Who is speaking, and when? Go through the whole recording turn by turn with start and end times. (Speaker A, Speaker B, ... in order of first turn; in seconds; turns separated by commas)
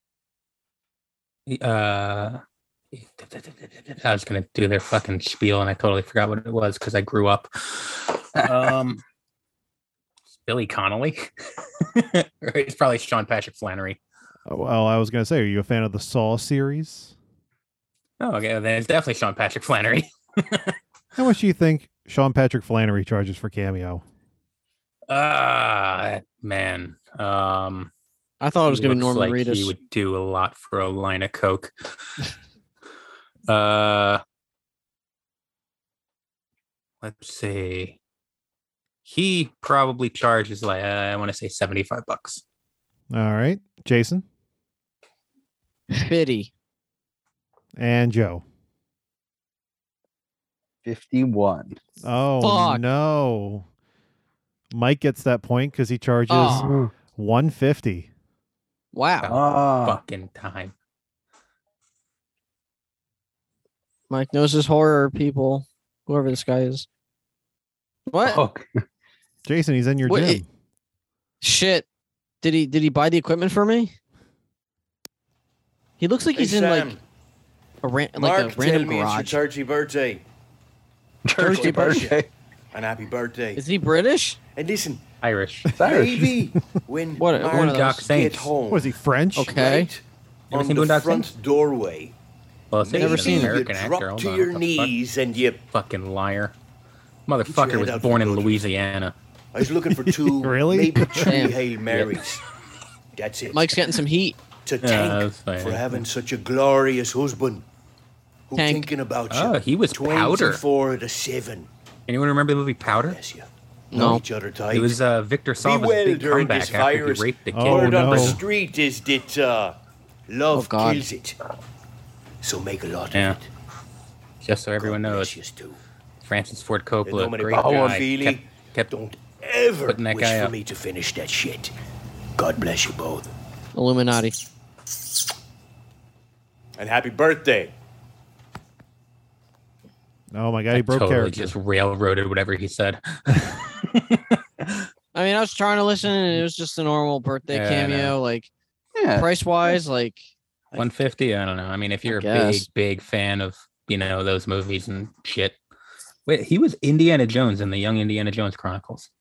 Speaker A: 1.5-2.4, Speaker A: 2.9-9.0, Speaker A: 10.3-14.0, Speaker B: 14.5-17.1, Speaker A: 18.2-20.8, Speaker B: 21.1-24.0, Speaker A: 25.1-27.9, Speaker C: 28.4-29.7, Speaker A: 28.7-31.7, Speaker A: 33.5-34.2, Speaker A: 37.0-38.0, Speaker A: 39.0-42.4, Speaker B: 43.1-44.2, Speaker C: 45.9-46.5, Speaker B: 47.8-48.4, Speaker D: 50.8-51.8, Speaker B: 52.0-53.6, Speaker C: 52.4-52.8, Speaker B: 54.7-58.1, Speaker C: 56.3-56.7, Speaker D: 56.5-56.9, Speaker C: 58.9-59.3, Speaker A: 59.2-60.7, Speaker D: 59.3-60.0, Speaker C: 64.1-66.8, Speaker C: 68.1-68.4, Speaker D: 68.2-68.7, Speaker B: 69.5-70.5, Speaker C: 70.0-70.4, Speaker C: 71.4-71.8, Speaker C: 72.4-73.9, Speaker C: 76.0-76.9, Speaker E: 76.3-77.0, Speaker C: 77.8-79.4, Speaker E: 78.2-80.2, Speaker D: 81.2-82.3, Speaker C: 81.4-82.1, Speaker E: 81.4-82.2, Speaker E: 82.7-83.6, Speaker C: 83.5-84.4, Speaker E: 84.5-85.0, Speaker A: 85.2-85.7, Speaker D: 85.8-86.3, Speaker E: 85.8-92.1, Speaker C: 87.2-88.0, Speaker A: 87.5-88.5, Speaker B: 88.7-89.6, Speaker C: 89.3-89.9, Speaker A: 90.5-91.3, Speaker A: 92.7-94.9, Speaker E: 92.8-95.6, Speaker C: 93.0-93.6, Speaker A: 95.7-96.5, Speaker A: 97.3-99.1, Speaker E: 97.4-98.7, Speaker E: 99.5-102.4, Speaker B: 100.0-101.5, Speaker C: 101.2-101.6, Speaker E: 103.1-103.8, Speaker C: 103.5-104.3, Speaker E: 104.6-107.6, Speaker A: 104.8-106.0, Speaker E: 108.5-111.7, Speaker C: 108.5-108.9, Speaker A: 109.3-110.6, Speaker A: 112.1-113.2, Speaker E: 112.8-115.0, Speaker C: 113.9-114.2, Speaker A: 114.7-118.4, Speaker E: 115.6-119.8, Speaker B: 117.5-118.4, Speaker E: 120.3-121.4, Speaker C: 120.5-121.1, Speaker E: 122.4-123.5, Speaker A: 123.1-123.4, Speaker A: 124.4-125.3, Speaker E: 124.8-125.8, Speaker A: 126.2-128.9, Speaker E: 127.0-131.7, Speaker D: 127.5-127.9, Speaker A: 129.9-130.5, Speaker E: 132.3-133.3, Speaker C: 133.7-134.3, Speaker E: 136.8-137.7, Speaker B: 140.3-141.5, Speaker A: 140.7-144.8, Speaker C: 145.1-148.5, Speaker A: 147.5-148.1, Speaker D: 148.9-149.3, Speaker C: 149.1-150.3, Speaker A: 150.7-155.6, Speaker C: 152.0-152.7, Speaker A: 156.3-159.1